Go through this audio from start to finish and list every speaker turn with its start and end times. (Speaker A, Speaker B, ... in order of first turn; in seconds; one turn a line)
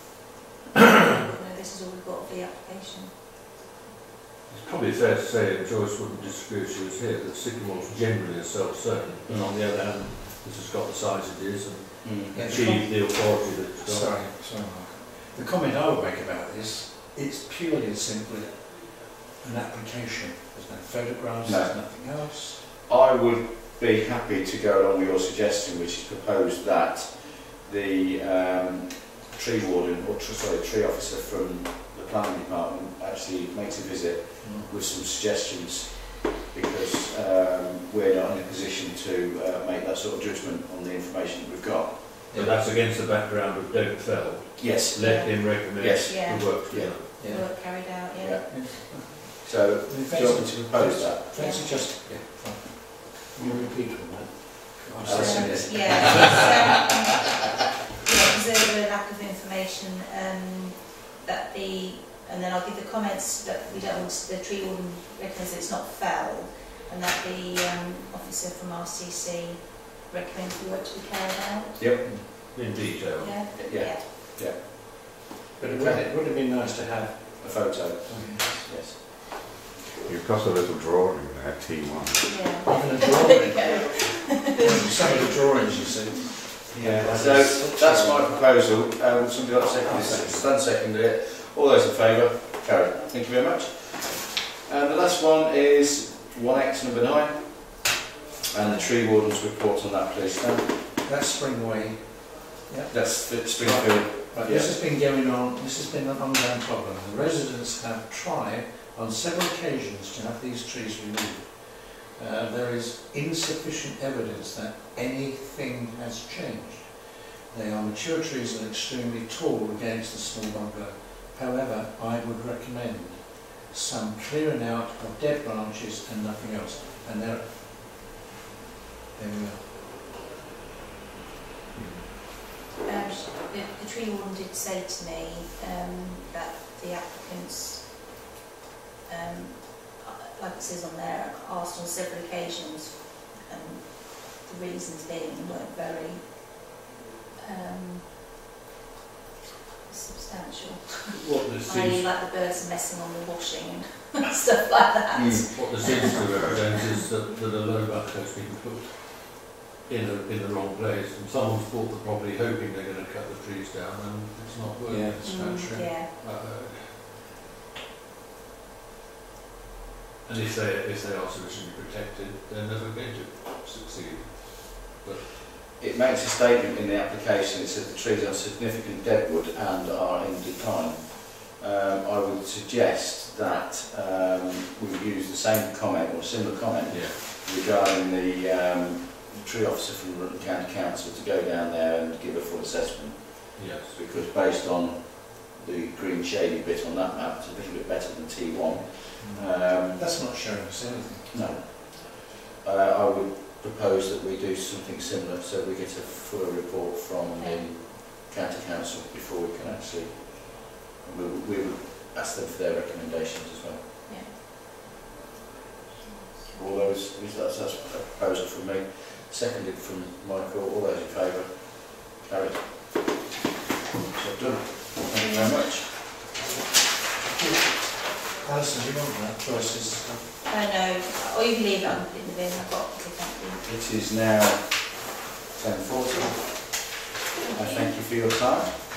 Speaker A: 1.0-3.1
Speaker B: 4.5-14.2
Speaker C: 12.0-12.4
Speaker D: 12.3-22.6
Speaker C: 21.4-21.7
Speaker C: 22.9-42.0
Speaker D: 34.4-34.7
Speaker D: 42.3-42.5
Speaker B: 42.3-47.3
Speaker C: 44.6-45.1
Speaker A: 45.0-46.5
Speaker C: 45.7-47.0
Speaker A: 47.1-48.4
Speaker D: 47.2-47.8
Speaker C: 48.1-48.7
Speaker D: 48.5-56.5
Speaker C: 49.4-51.2
Speaker A: 51.3-51.9
Speaker C: 55.0-56.7
Speaker A: 55.1-57.4
Speaker A: 58.0-71.8
Speaker C: 71.8-72.0
Speaker B: 72.5-73.3
Speaker A: 73.2-74.1
Speaker C: 73.5-74.7
Speaker D: 75.6-78.7
Speaker C: 75.6-76.0
Speaker C: 77.4-79.0
Speaker E: 80.0-82.4
Speaker A: 82.2-85.3
Speaker D: 82.6-86.7
Speaker C: 86.7-98.0
Speaker E: 87.2-87.5
Speaker C: 98.5-100.8
Speaker D: 101.0-127.4
Speaker C: 102.9-104.7
Speaker D: 129.1-129.6
Speaker A: 132.8-138.0
Speaker A: 139.1-146.7
Speaker A: 147.4-148.1
Speaker A: 149.9-156.5
Speaker B: 151.1-152.1
Speaker C: 155.1-155.7
Speaker B: 155.5-167.0
Speaker D: 164.9-165.9
Speaker A: 165.2-166.1
Speaker B: 170.2-175.3
Speaker C: 175.8-200.0
Speaker B: 186.9-187.1
Speaker B: 193.6-194.0
Speaker D: 199.2-201.3
Speaker C: 201.3-213.8
Speaker A: 207.3-207.6
Speaker A: 216.1-216.9
Speaker C: 216.5-222.6
Speaker C: 224.1-225.9
Speaker D: 228.3-230.3
Speaker A: 230.4-233.6
Speaker C: 233.6-235.0
Speaker C: 235.5-236.8
Speaker A: 237.4-237.9
Speaker C: 237.5-238.8